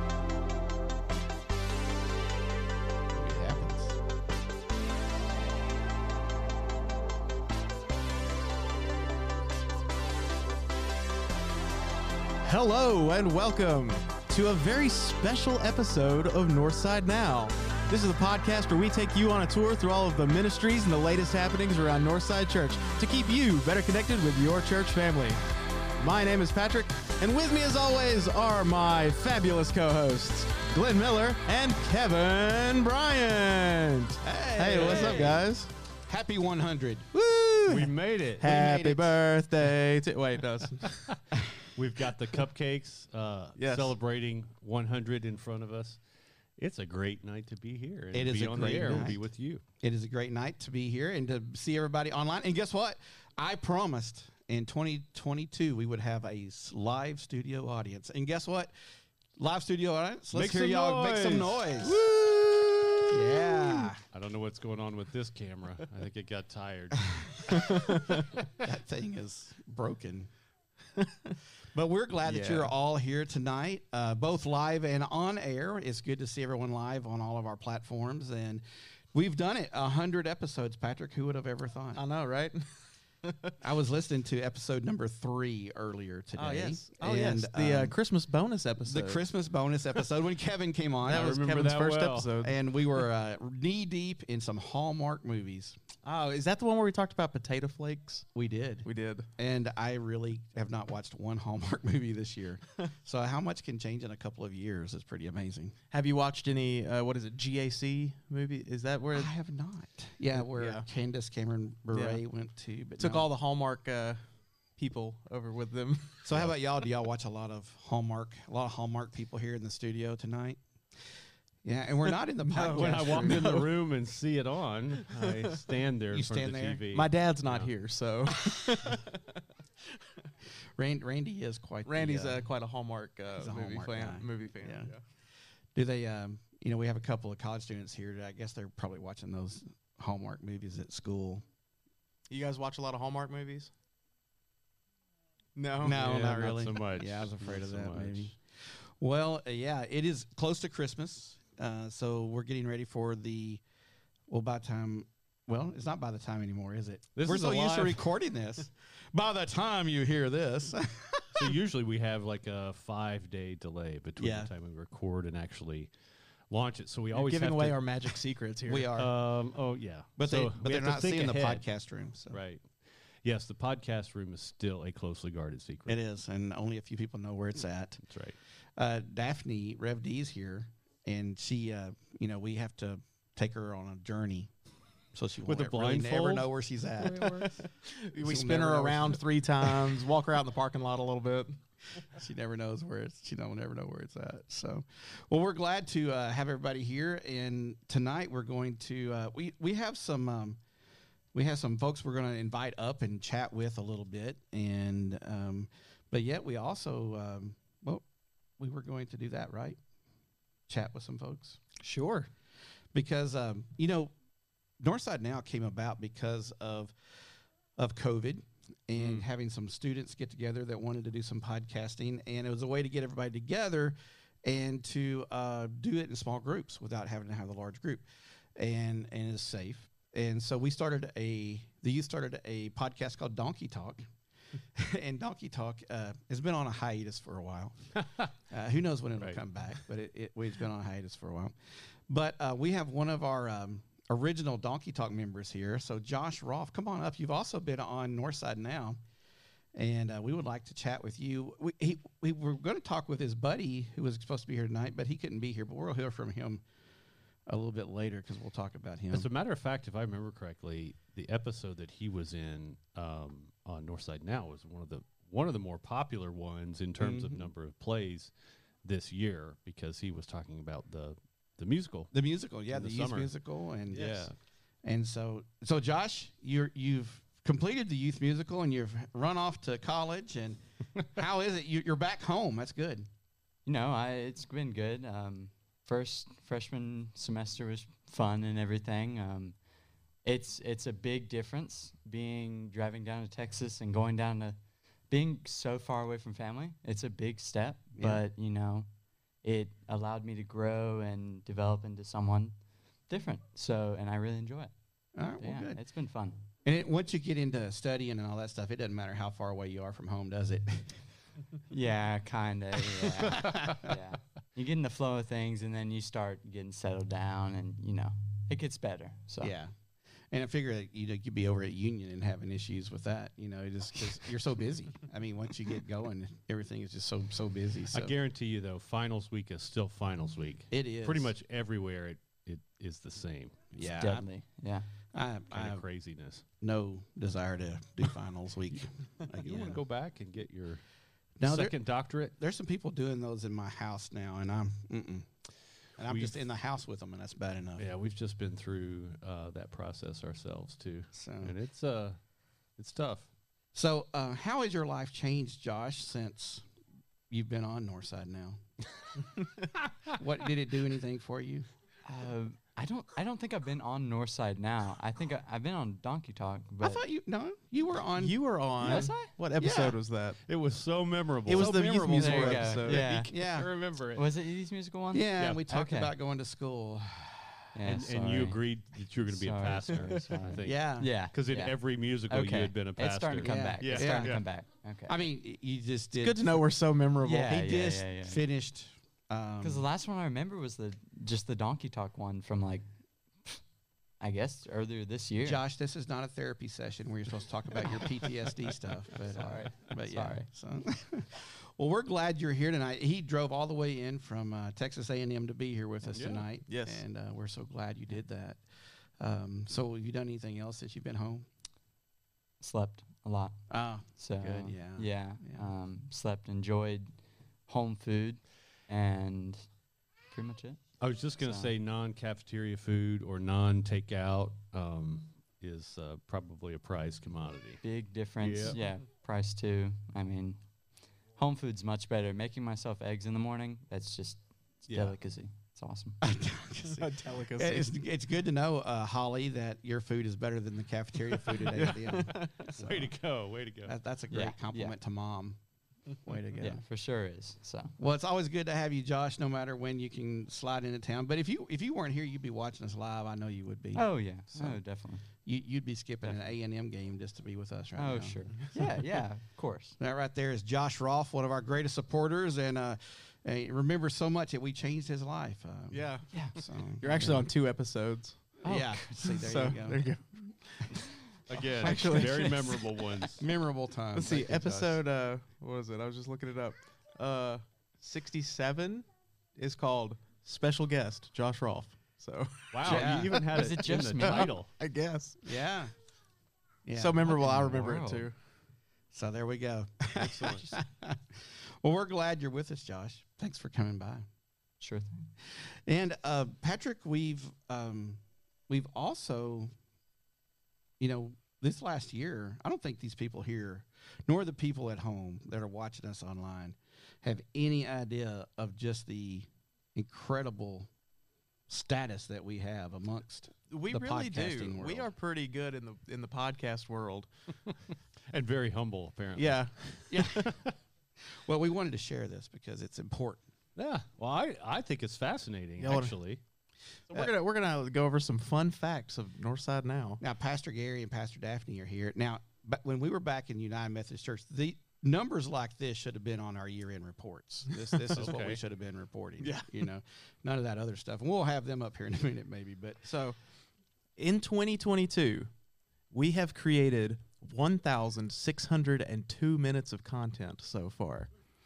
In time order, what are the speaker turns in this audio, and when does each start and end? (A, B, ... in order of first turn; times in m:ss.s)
0:03.1-0:03.9 A
0:12.4-0:25.4 B
0:26.0-0:35.7 B
0:34.2-0:35.4 A
0:34.8-0:35.2 C
0:36.1-0:37.2 A
0:37.3-0:41.1 B
0:37.7-0:38.4 C
0:38.4-0:39.2 A
0:41.8-0:46.0 C
0:43.6-0:44.0 B
0:46.6-0:49.6 C
0:48.1-0:49.2 A
0:49.8-0:58.7 A
0:59.4-1:02.0 A
1:00.3-1:03.4 C
1:03.1-1:04.0 A
1:04.1-1:07.5 C
1:07.4-1:07.8 A
1:07.5-1:08.3 B
1:08.6-1:10.3 A
1:11.0-1:11.4 B
1:11.7-1:22.0 A
1:12.2-1:12.7 B
1:22.0-1:22.6 B
1:23.2-1:23.6 B
1:23.6-1:28.0 A
1:26.4-1:29.2 B
1:28.8-1:31.4 A
1:31.0-1:32.6 B
1:31.1-1:32.4 C
1:32.4-1:35.8 A
1:36.0-1:38.3 B
1:38.4-1:45.8 A
1:38.8-1:39.3 B
1:45.9-1:49.3 B
1:49.1-1:53.3 A
1:50.3-1:50.9 B
1:51.9-1:52.2 B
1:53.0-1:54.2 B
1:54.8-1:56.3 B
1:56.2-2:01.1 A
2:01.6-2:03.6 A
2:02.5-2:03.7 B
2:02.7-2:07.7 C
2:06.1-2:06.8 A
2:06.9-2:09.2 B
2:10.8-2:12.5 A
2:11.9-2:15.0 B
2:13.4-2:14.9 A
2:15.8-2:21.4 A
2:22.3-2:23.7 B
2:25.6-2:26.5 B
2:25.8-2:33.6 A
2:26.0-2:28.3 C
2:34.3-2:41.5 A
2:37.2-2:38.1 C
2:41.3-2:45.9 C
2:44.2-2:44.5 A
2:46.5-2:48.2 C
2:47.1-2:48.9 B
2:48.7-2:49.1 A
2:49.0-2:51.6 C
2:50.2-2:52.4 A
2:52.3-2:56.0 C
2:55.9-2:58.0 A
2:58.0-2:58.4 C
2:58.8-3:04.5 A
3:05.1-3:07.7 A
3:05.5-3:06.5 C
3:07.1-3:11.6 B
3:08.2-3:10.0 A
3:12.0-3:20.6 A
3:21.3-3:28.0 A
3:28.6-3:29.8 A
3:30.7-3:31.6 A
3:31.8-3:32.3 B
3:32.9-3:34.1 A
3:34.8-3:37.0 A
3:37.8-3:54.1 A
3:39.0-3:39.2 B
3:54.8-3:58.0 A
3:58.5-4:09.0 A
4:09.8-4:16.6 A
4:17.5-4:19.3 A
4:19.1-4:28.3 C
4:27.0-4:27.5 A
4:28.8-4:32.1 C
4:32.1-4:34.3 A
4:32.7-4:33.3 C
4:33.9-4:34.3 C
4:34.8-4:43.1 A
4:43.7-4:49.6 D
4:50.2-4:54.6 D
4:55.1-4:58.9 D
4:58.0-4:58.2 A
4:59.4-5:02.6 D
5:03.1-5:04.7 D
5:05.2-5:05.8 A
5:05.4-5:06.4 D
5:06.6-5:11.0 A
5:11.7-5:19.5 D
5:13.2-5:13.8 A
5:19.4-5:19.7 A
5:20.3-5:28.1 A
5:27.9-5:33.5 C
5:30.7-5:31.3 A
5:33.7-5:34.3 A
5:33.8-5:34.9 D
5:35.1-5:35.8 A
5:35.5-5:36.4 C
5:36.6-5:39.8 A
5:39.4-5:40.8 C
5:41.4-5:45.3 A
5:41.4-5:42.3 C
5:46.0-5:47.9 A
5:46.0-5:46.4 C
5:47.8-5:52.2 C
5:51.1-5:51.6 A
5:52.8-5:53.3 C
5:53.8-5:56.7 A
5:57.3-5:58.6 A
6:00.1-6:01.7 A
6:02.0-6:07.0 D
6:06.8-6:10.0 A
6:08.2-6:10.4 B
6:08.8-6:09.3 D
6:10.5-6:14.3 C
6:11.5-6:13.1 B
6:11.6-6:13.5 D
6:12.5-6:13.7 A
6:14.1-6:16.1 D
6:15.1-6:17.6 A
6:17.7-6:18.7 D
6:17.8-6:24.4 C
6:19.2-6:25.2 D
6:20.6-6:21.1 A
6:23.4-6:24.4 A
6:25.1-6:26.7 A
6:26.2-6:27.6 B
6:27.2-6:28.4 D
6:27.4-6:29.9 A
6:29.6-6:32.9 D
6:34.2-6:35.6 D
6:35.4-6:48.6 A
6:39.3-6:40.5 D
6:46.1-6:46.5 C
6:46.7-6:47.0 B
6:49.2-6:51.5 A
6:52.6-6:59.7 D
6:53.7-6:55.7 A
7:00.3-7:01.7 D
7:01.0-7:07.8 C
7:07.8-7:10.6 D
7:08.4-7:08.8 C
7:11.4-7:16.2 D
7:14.9-7:15.2 C
7:16.2-7:23.2 A
7:17.0-7:17.9 B
7:22.2-7:22.6 B
7:22.6-7:23.9 C
7:23.8-7:25.6 A
7:24.3-7:25.0 D
7:26.2-7:26.8 A
7:26.6-7:27.9 D
7:28.0-7:34.8 A
7:34.0-7:35.3 D
7:35.4-7:39.2 A
7:38.0-7:40.0 D
7:40.0-7:47.5 A
7:45.9-7:46.5 B
7:46.3-7:46.6 D
7:47.0-7:48.5 B
7:48.6-7:49.4 D
7:48.6-7:50.2 A
7:49.2-7:50.9 B
7:51.5-7:52.8 B
7:51.5-7:53.4 C
7:51.8-7:55.0 A
7:54.1-7:59.1 B
7:59.6-8:03.5 B
8:02.7-8:04.7 C
8:02.8-8:03.4 A
8:02.8-8:04.5 D
8:04.2-8:05.4 B
8:05.4-8:05.9 A
8:06.8-8:07.2 A
8:07.0-8:08.4 B
8:07.2-8:08.3 D
8:09.1-8:14.3 A
8:10.2-8:10.8 C
8:14.8-8:15.3 D
8:15.4-8:19.7 A
8:21.0-8:30.9 A
8:31.7-8:35.1 A
8:33.7-8:37.3 B
8:38.3-8:39.7 C
8:39.4-8:40.5 B
8:40.1-8:40.5 A
8:41.3-8:43.4 A
8:43.8-8:46.4 C
8:45.8-8:46.2 B
8:47.1-8:50.2 B
8:50.2-9:03.0 A
8:57.9-8:58.2 B
8:58.2-8:58.6 C
8:59.4-8:59.7 B
9:03.0-9:03.4 B
9:04.2-9:05.5 B
9:06.1-9:11.3 B